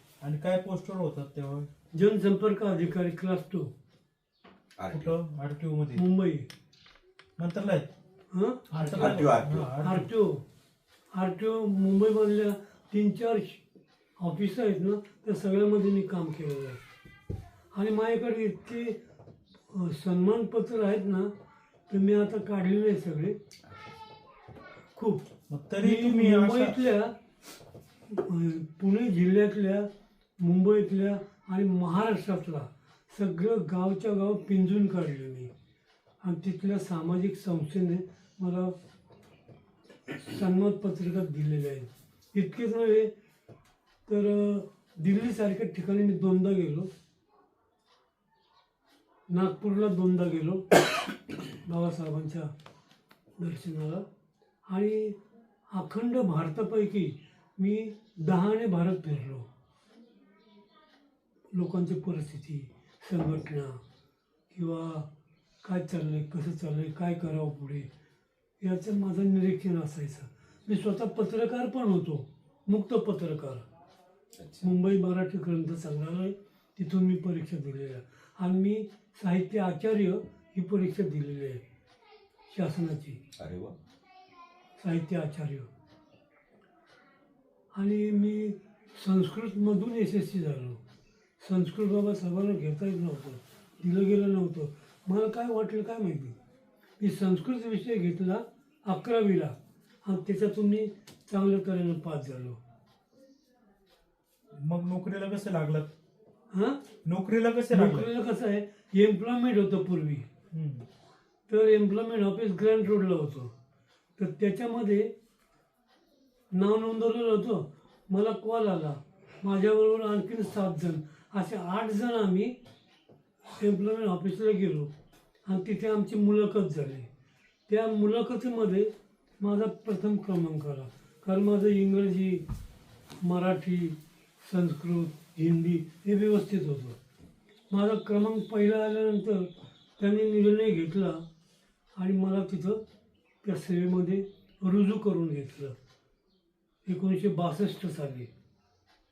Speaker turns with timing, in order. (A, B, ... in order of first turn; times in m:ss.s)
0:00.2-0:01.7 A
0:01.9-0:03.7 B
0:04.8-0:05.2 C
0:04.9-0:06.0 A
0:05.9-0:06.5 B
0:07.4-0:07.9 A
0:08.3-0:08.6 B
0:08.7-0:09.7 C
0:08.7-0:10.1 A
0:09.8-0:10.4 B
0:11.1-0:13.6 B
0:14.2-0:16.8 B
0:17.7-0:19.0 B
0:19.7-0:21.3 B
0:21.9-0:23.4 B
0:24.9-0:25.2 B
0:25.5-0:26.8 A
0:25.8-0:27.1 B
0:28.1-0:29.9 B
0:30.4-0:35.5 B
0:36.2-0:38.7 B
0:40.1-0:43.1 B
0:44.1-0:46.9 B
0:49.3-0:50.6 B
0:51.6-0:52.5 B
0:53.4-0:54.0 B
0:54.7-0:55.2 B
0:55.7-0:59.5 B
1:01.5-1:03.7 B
1:04.5-1:05.1 B
1:05.6-1:07.9 B
1:08.6-1:13.6 B
1:14.4-1:14.7 C
1:14.6-1:21.6 B
1:22.5-1:23.2 B
1:23.4-1:23.8 C
1:24.8-1:25.7 B
1:27.7-1:30.8 B
1:31.4-1:36.3 B
1:37.0-1:42.6 B
1:44.6-1:45.9 A
1:46.5-1:46.8 B
1:47.0-1:48.1 A
1:47.7-1:50.3 B
1:50.5-1:50.8 A
1:51.5-1:53.5 B
1:54.2-1:55.1 B
1:56.5-2:02.6 B
2:03.6-2:04.9 B
2:05.4-2:07.1 B
2:07.7-2:12.4 B
2:13.2-2:17.0 B
2:17.7-2:21.2 B
2:22.0-2:22.8 B
2:23.4-2:25.7 B
2:26.8-2:28.3 B